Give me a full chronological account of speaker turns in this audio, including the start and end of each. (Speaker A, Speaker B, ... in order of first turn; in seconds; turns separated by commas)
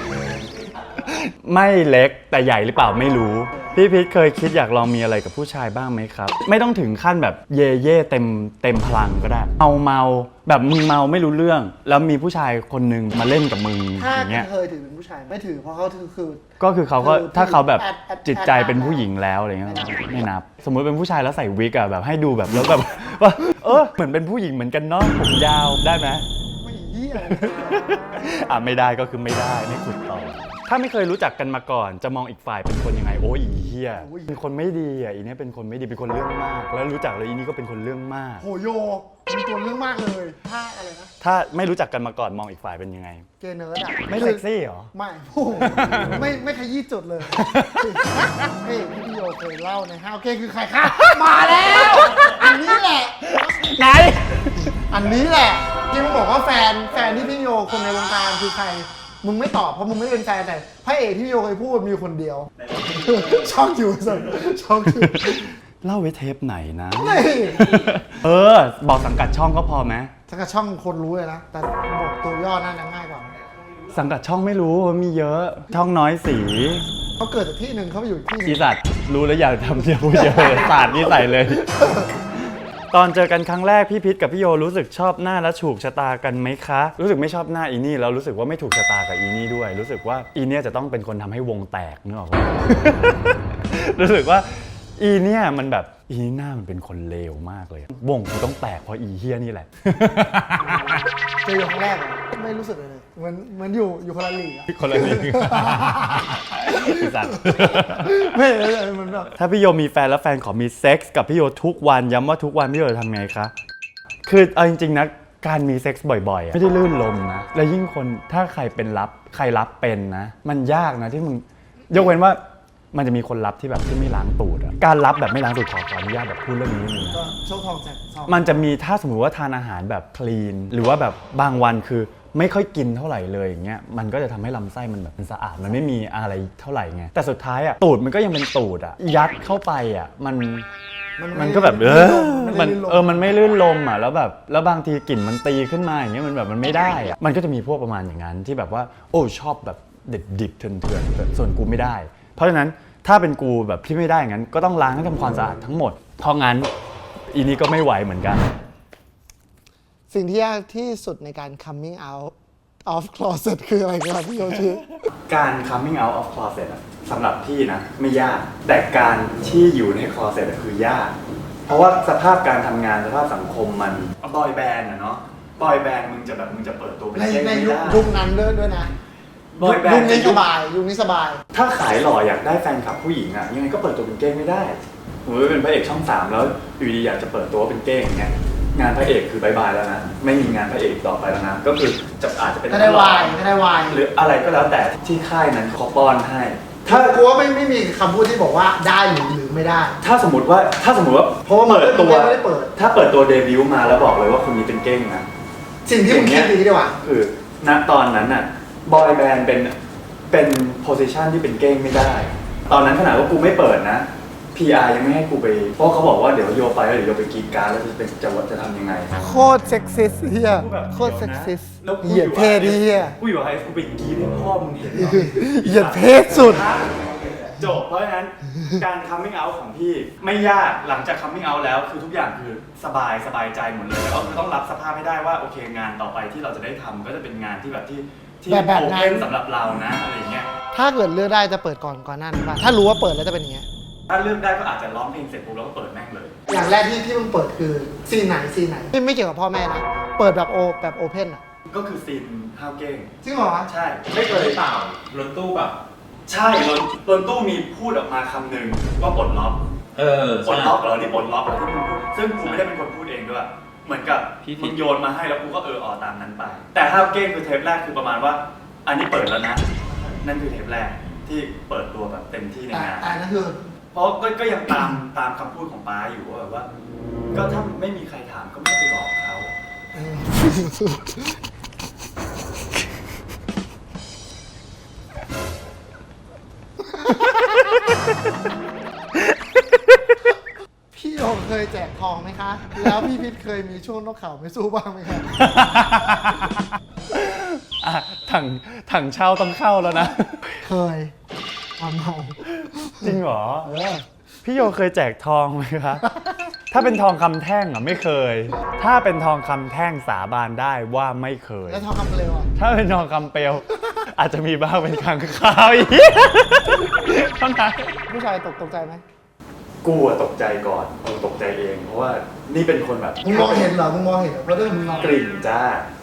Speaker A: 0.9-14.5, Speaker B: 14.0-16.4, Speaker A: 16.6-26.2, Speaker B: 17.0-19.1, Speaker B: 19.6-20.0, Speaker B: 26.6-28.4, Speaker A: 27.2-38.4, Speaker B: 33.9-34.4, Speaker B: 38.4-41.1, Speaker A: 41.2-43.2, Speaker B: 43.4-53.7, Speaker A: 44.0-44.9, Speaker A: 45.6-46.2, Speaker A: 47.3-48.5, Speaker A: 50.8-54.8, Speaker B: 54.5-65.4, Speaker C: 62.6-63.4, Speaker A: 64.8-70.1, Speaker B: 67.0-67.8, Speaker B: 70.3-73.4, Speaker A: 73.9-76.8, Speaker B: 77.2-78.6, Speaker A: 78.4-81.8, Speaker B: 80.1-80.7, Speaker B: 81.5-82.1, Speaker A: 82.4-101.1, Speaker B: 100.9-109.3, Speaker A: 104.7-108.3, Speaker A: 109.3-113.5, Speaker A: 114.2-122.4, Speaker A: 122.9-127.2, Speaker B: 127.1-128.6, Speaker A: 128.2-140.7, Speaker B: 141.2-143.3, Speaker A: 141.3-156.7, Speaker A: 157.3-158.5, Speaker B: 160.1-162.3, Speaker B: 162.8-164.9, Speaker A: 165.2-171.1, Speaker A: 171.7-178.1, Speaker B: 177.1-178.9, Speaker A: 179.5-180.4, Speaker B: 179.6-181.4, Speaker A: 181.5-197.1, Speaker B: 192.7-194.0, Speaker B: 196.8-200.0, Speaker A: 200.0-205.3, Speaker B: 201.4-202.7, Speaker B: 205.8-207.0, Speaker A: 206.0-209.7, Speaker A: 210.3-219.1, Speaker B: 219.2-223.2, Speaker A: 220.5-240.5, Speaker B: 224.9-226.7, Speaker C: 227.0-227.5, Speaker B: 238.5-239.2, Speaker B: 240.7-243.7, Speaker A: 244.1-246.4, Speaker B: 246.5-251.4, Speaker A: 251.7-253.1, Speaker B: 253.2-253.7, Speaker A: 253.7-254.6, Speaker C: 254.2-255.8, Speaker A: 256.3-259.6, Speaker C: 259.9-260.8, Speaker A: 260.4-273.1, Speaker C: 264.4-264.8, Speaker B: 272.7-273.6, Speaker A: 273.9-276.7, Speaker A: 277.3-279.5, Speaker B: 279.9-281.4, Speaker B: 286.9-287.9, Speaker A: 287.4-288.1, Speaker A: 289.1-290.1, Speaker B: 290.9-295.6, Speaker A: 292.8-293.2, Speaker A: 295.3-300.6, Speaker B: 300.6-301.1, Speaker B: 301.8-304.1, Speaker A: 302.6-303.8, Speaker A: 304.4-306.1, Speaker B: 306.1-306.4, Speaker A: 306.7-311.9, Speaker B: 311.7-312.5, Speaker A: 312.5-318.0, Speaker B: 318.1-319.0, Speaker A: 319.8-323.7, Speaker B: 323.2-325.2, Speaker A: 324.9-325.9